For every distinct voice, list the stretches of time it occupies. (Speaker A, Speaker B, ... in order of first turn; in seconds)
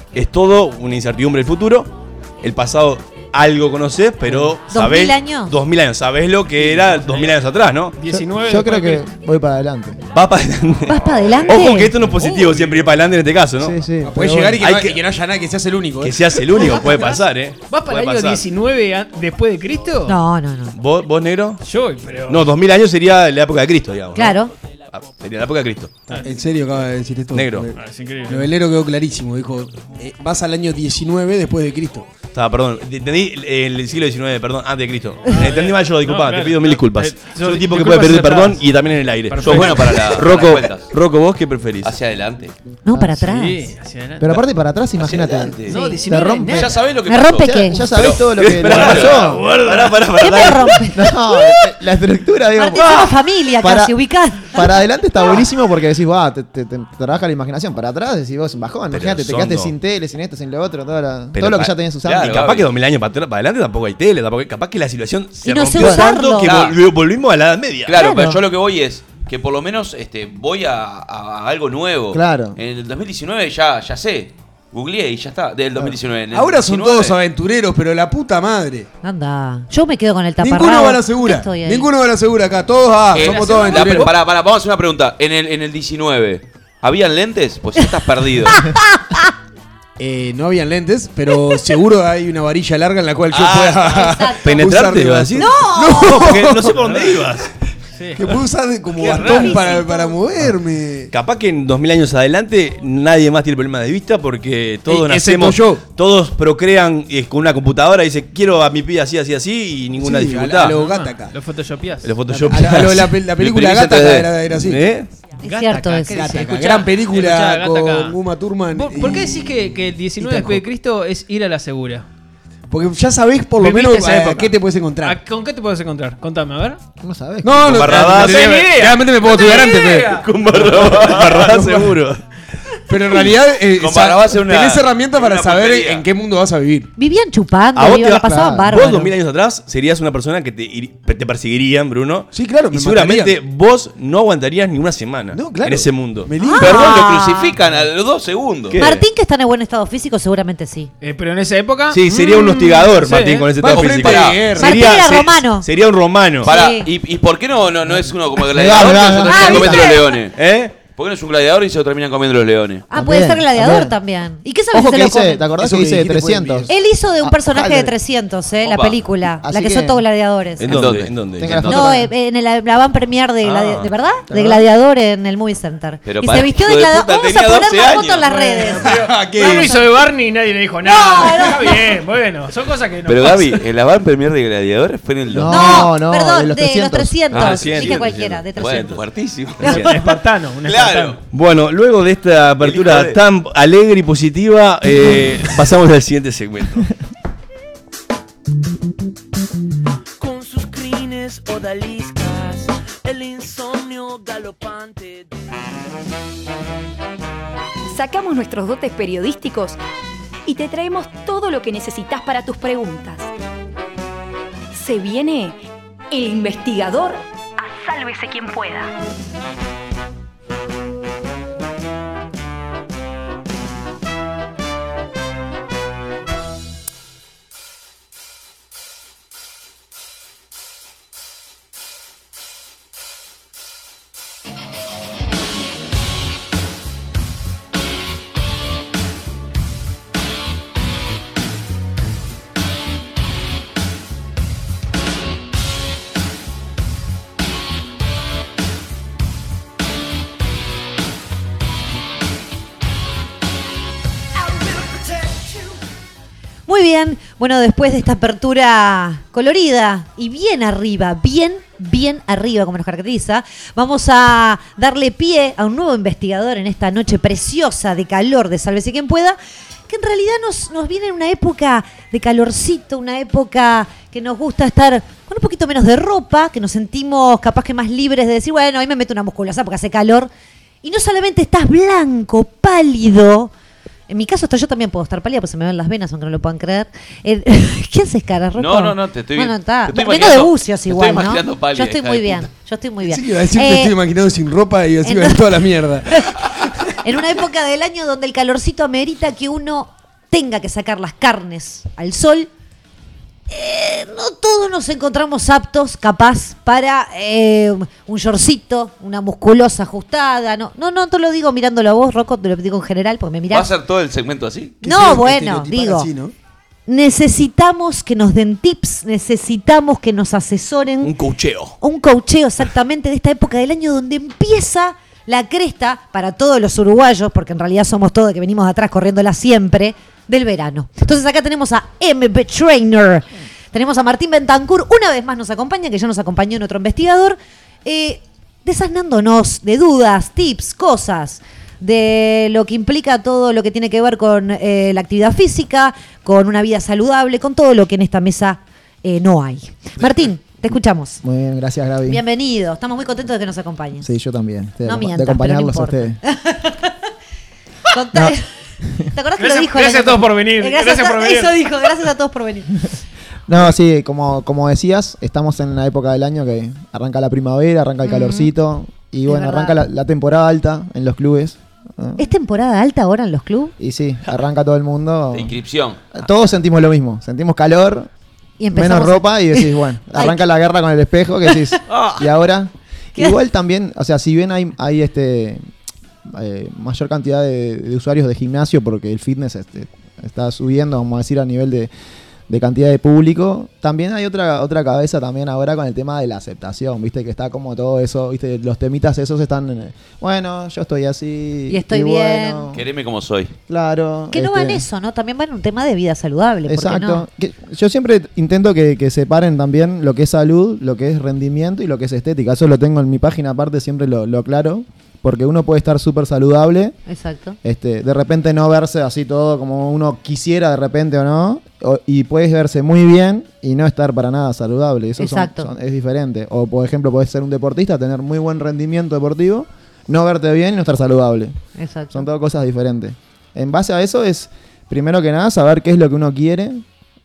Speaker A: 0.1-8.0, 10.1-13.8, 14.6-15.0, 16.0-18.4, 20.8-21.6, 22.3-24.4, 24.9-26.1, 27.3-27.7, 32.3-41.9, 48.3-50.8, 52.8-53.1, 58.9-59.7, 61.3-67.9, 94.4-97.5, 101.1-110.8, 112.0-113.2, 114.6-115.1, 127.6-128.9, 130.1-132.2, 137.8-146.3, 148.7-149.0, 151.9-156.5, 160.3-160.8, 170.6-171.6, 173.4-173.9, 177.7-178.1, 187.3-189.0, 189.6-189.9, 191.3-196.9, 321.0-321.8
Speaker B: 4.3-4.5, 8.1-10.0, 13.6-14.6, 43.0-43.2, 44.2-46.8, 47.4-49.5, 50.7-62.5, 65.8-66.2, 72.1-72.6, 127.0-127.8, 157.9-160.0, 162.9-164.0, 164.7-166.7, 167.2-167.9, 169.3-170.0, 170.7-172.1, 174.3-174.6, 185.3-187.2, 351.2-352.2, 354.0-356.2, 363.5-372.3, 373.8-375.6, 376.1-378.1, 378.7-385.6, 386.3-391.9, 392.5-402.9, 403.7-404.9, 406.7-417.0, 417.6-431.6, 432.1-436.8
Speaker C: 4.7-5.5, 10.9-11.9, 20.1-20.8, 24.2-24.5, 42.9-43.7, 45.7-46.0, 47.1-47.9, 50.2-51.7, 52.6-54.7, 65.4-66.5, 67.9-68.4, 79.0-81.9, 88.5-89.3, 93.8-94.6, 95.4-96.2, 99.0-100.2, 115.4-116.2, 137.0-139.1, 146.4-147.6, 148.8-150.9, 152.1-152.9, 154.6-155.7, 156.4-156.9, 159.2-160.2, 162.9-165.4, 166.7-170.7, 171.7-179.9, 180.8-181.8, 185.5-189.0, 256.7-269.4, 269.9-280.3, 280.8-283.5, 284.1-293.9, 295.0-295.5, 296.1-296.5, 297.0-302.5, 303.5-313.7, 314.8-316.1, 316.9-321.1, 321.8-351.2, 352.1-354.1, 354.8-357.1, 357.9-358.5, 359.1-362.8, 368.0-368.5, 369.3-369.8, 372.2-373.7, 378.6-380.4, 381.5-382.0, 401.7-402.7, 404.3-407.2, 417.1-417.6, 425.2-425.7, 431.8-432.3
Speaker D: 6.6-7.4, 8.0-9.1, 12.1-13.0, 16.6-20.2, 21.6-22.5, 27.7-28.5, 35.3-38.7, 39.3-40.1, 43.1-44.4, 45.7-46.8, 83.2-84.1, 96.8-97.2, 97.9-98.4, 99.0-99.9, 110.7-112.2, 115.4-118.2, 118.7-122.1, 123.6-126.8, 128.1-130.2, 151.0-152.0, 152.8-153.6, 178.2-183.6, 189.6-191.2, 359.4-361.6
Speaker E: 14.1-16.7, 26.1-32.1, 76.3-78.9, 80.4-84.1, 90.0-96.8, 98.2-101.1, 104.9-105.8, 110.0-111.3, 112.3-114.8, 116.1-120.6, 122.7-125.2, 127.4-130.2, 131.4-131.9, 132.9-136.9, 142.3-143.4, 145.3-147.2, 153.6-154.9, 165.6-166.7, 178.9-179.8, 293.0-296.9, 314.8-316.3
Speaker F: 39.4-40.9, 41.8-42.5, 45.0-45.8, 46.5-49.9, 62.0-62.7, 66.4-66.8, 67.9-77.2, 83.1-88.7, 93.3-94.2, 113.4-114.3, 130.2-131.7, 133.7-136.1, 146.6-148.8, 153.6-154.4, 156.4-162.9, 168.7-168.9, 170.6-172.0, 176.1-178.2, 183.1-185.9, 187.3-190.1, 190.7-191.2, 192.6-193.2, 288.6-292.5, 313.5-314.8, 375.3-376.0, 402.7-403.5
Speaker G: 200.2-205.3, 254.8-255.5
Speaker H: 207.9-209.8, 210.5-213.3, 214.7-215.6, 216.1-218.9